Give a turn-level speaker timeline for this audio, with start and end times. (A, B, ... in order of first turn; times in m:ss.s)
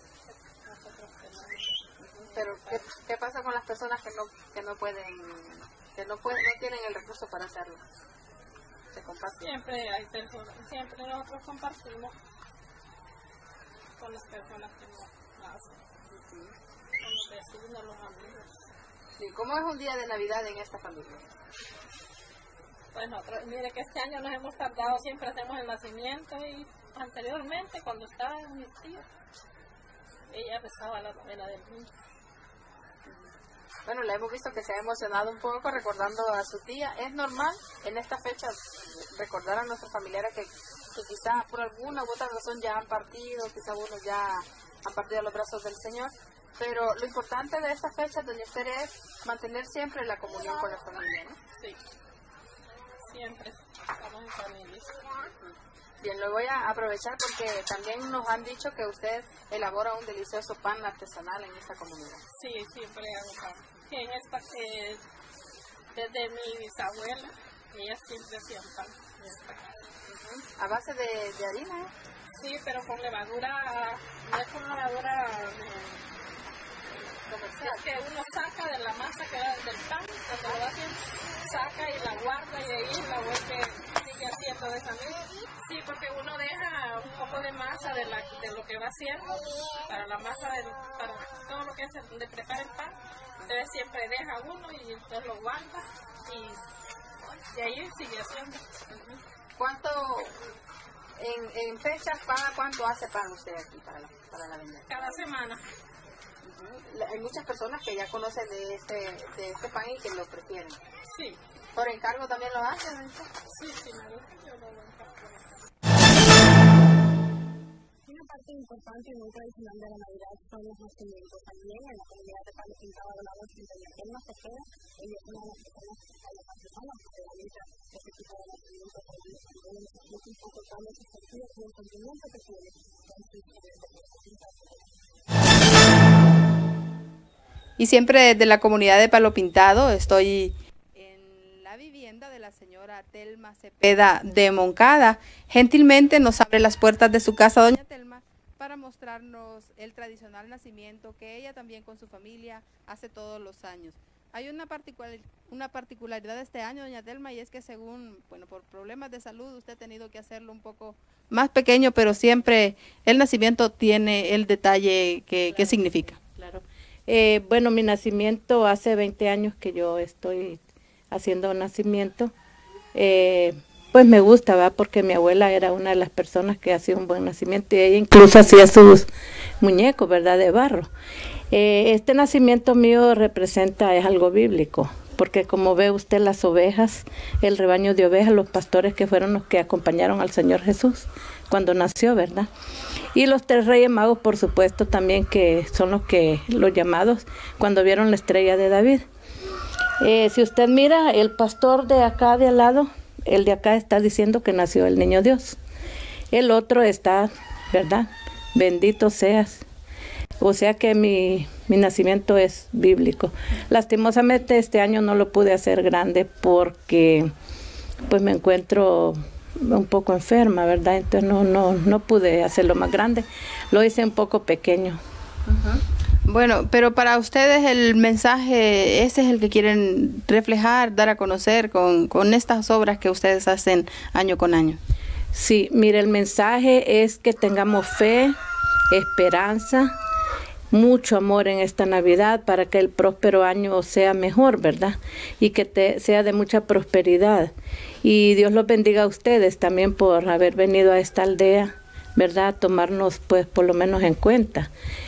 0:00.6-0:02.8 A
0:02.3-0:07.8 B
0:08.9-0:09.4 B
0:09.4-0:12.1 A
0:14.0-0:15.8 A
0:16.1-0:16.5 B
0:17.0-0:18.5 A
0:19.2-0:21.3 B
0:22.9-0:29.0 A
0:30.3-0:31.9 A
0:33.8-0:51.4 B
0:53.0-0:55.0 A
0:56.0-1:02.2 B
1:02.3-1:05.0 A
1:05.9-1:09.8 A
1:10.1-1:11.9 B
1:12.3-1:16.0 A
1:17.3-1:17.8 B
1:17.6-1:36.6 A
1:37.2-1:38.6 A
1:38.9-1:40.3 B
1:41.2-1:45.2 B
1:44.9-1:45.6 A
1:46.4-1:50.8 B
1:51.1-1:51.4 A
1:51.7-1:53.3 B
1:53.5-1:55.6 A
1:58.0-2:15.0 C
2:17.8-2:46.2 B
2:46.2-2:50.6 D
2:51.1-2:52.3 D
2:52.9-2:59.1 D
2:59.6-3:00.9 D
3:01.5-3:12.5 D
3:13.1-3:19.1 D
3:20.0-3:25.6 D
3:26.3-3:29.6 D
3:30.4-3:37.3 D
3:38.1-3:45.0 D
3:45.5-3:54.8 B
3:55.3-3:58.4 D
3:58.9-3:59.9 D
4:00.7-4:07.5 D
4:08.0-4:14.7 D